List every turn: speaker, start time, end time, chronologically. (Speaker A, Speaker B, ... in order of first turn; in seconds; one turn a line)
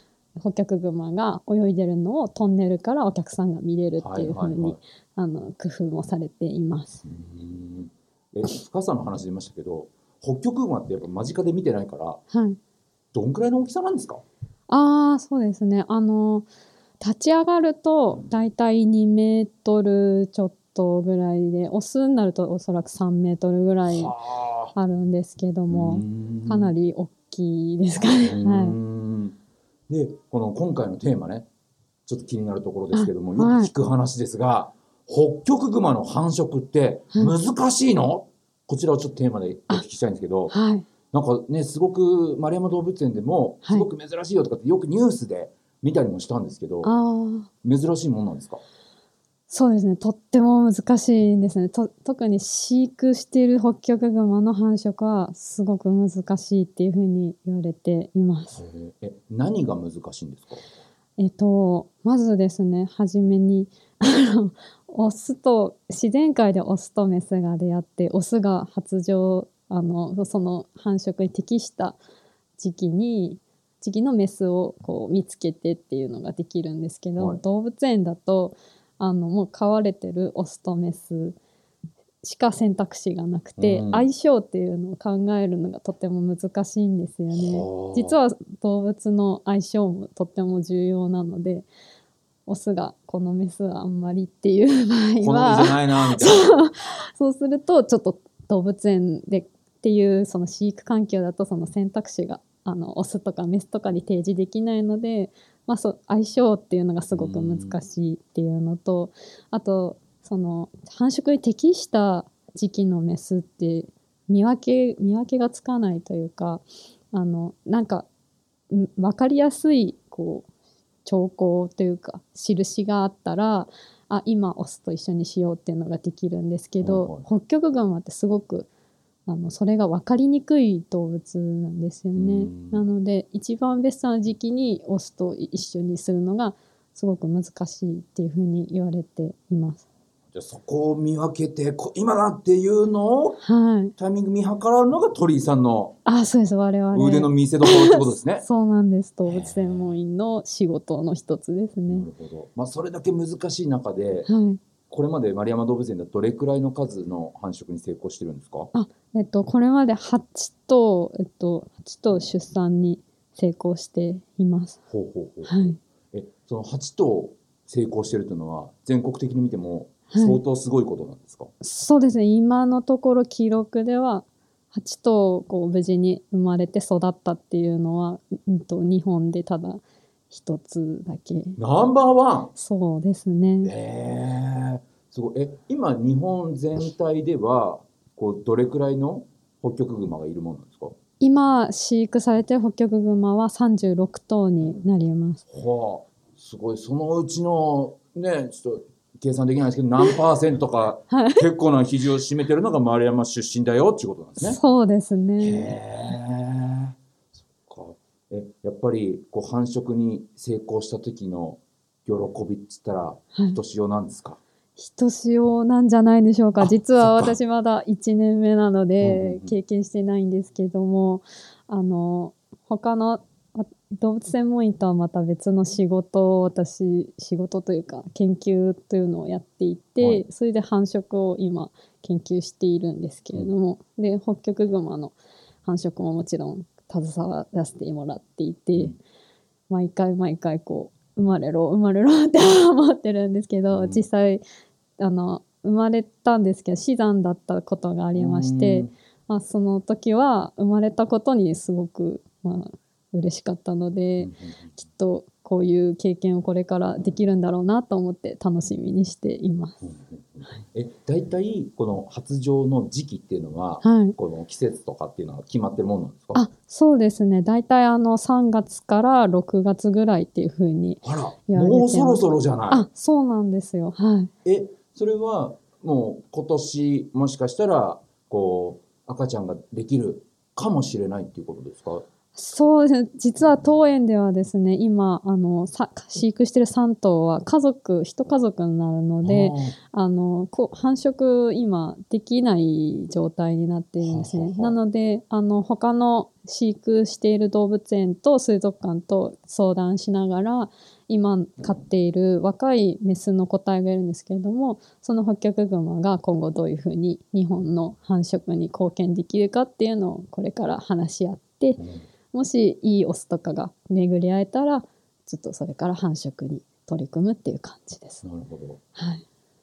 Speaker A: 0.4-7.0
Speaker B: 4.0-4.8
Speaker B: 7.0-12.2
Speaker A: 12.3-12.6
Speaker B: 13.1-14.2
Speaker A: 14.7-16.5
Speaker A: 17.0-24.1
Speaker B: 23.9-24.7
Speaker A: 24.7-28.8
Speaker B: 25.7-26.7
Speaker B: 28.2-29.4
Speaker B: 29.9-31.5
Speaker B: 32.0-40.5
Speaker A: 32.9-33.7
Speaker A: 40.5-40.9
Speaker B: 41.1-46.9
Speaker A: 46.8-47.5
Speaker B: 47.6-48.6
Speaker A: 49.5-58.6
Speaker B: 58.6-60.6
Speaker A: 61.2-72.0
Speaker A: 72.6-81.4
Speaker B: 77.2-77.4
Speaker A: 82.2-91.7
Speaker B: 83.6-84.1
Speaker B: 87.3-88.2
Speaker A: 92.5-118.1
Speaker B: 95.2-96.6
Speaker B: 107.1-107.8
Speaker A: 118.7-120.5
Speaker A: 121.0-128.7
Speaker B: 126.8-127.3
Speaker A: 129.2-139.8
Speaker B: 132.1-132.8
Speaker B: 140.3-143.4
Speaker A: 143.4-143.9
Speaker B: 144.0-145.9
Speaker A: 146.1-152.1
Speaker B: 146.9-148.4
Speaker B: 149.2-150.0
Speaker B: 151.9-154.3
Speaker A: 154.3-154.6
Speaker B: 154.9-158.7
Speaker A: 158.7-164.8
Speaker B: 164.9-171.5
Speaker A: 165.5-165.8
Speaker A: 170.1-170.4
Speaker A: 171.6-181.6
Speaker B: 181.6-182.5
Speaker A: 182.5-183.7
Speaker B: 183.6-190.9
Speaker A: 191.2-195.4
Speaker B: 195.5-204.6
Speaker A: 201.1-201.4
Speaker A: 204.4-205.7
Speaker B: 205.4-214.4
Speaker A: 213.3-213.6
Speaker A: 214.8-238.9
Speaker B: 216.6-217.4
Speaker B: 219.0-219.5
Speaker A: 239.7-244.4
Speaker B: 243.7-244.0
Speaker A: 245.0-259.8
Speaker B: 248.1-248.9
Speaker B: 254.2-254.7
Speaker B: 259.8-266.4
Speaker A: 263.8-264.1
Speaker A: 266.3-274.3
Speaker B: 271.0-272.9
Speaker B: 274.4-282.0
Speaker A: 282.3-311.8
Speaker B: 289.2-289.7
Speaker B: 294.0-294.8
Speaker B: 311.8-312.0
Speaker A: 312.3-318.2
Speaker B: 318.2-318.8
Speaker A: 318.9-319.2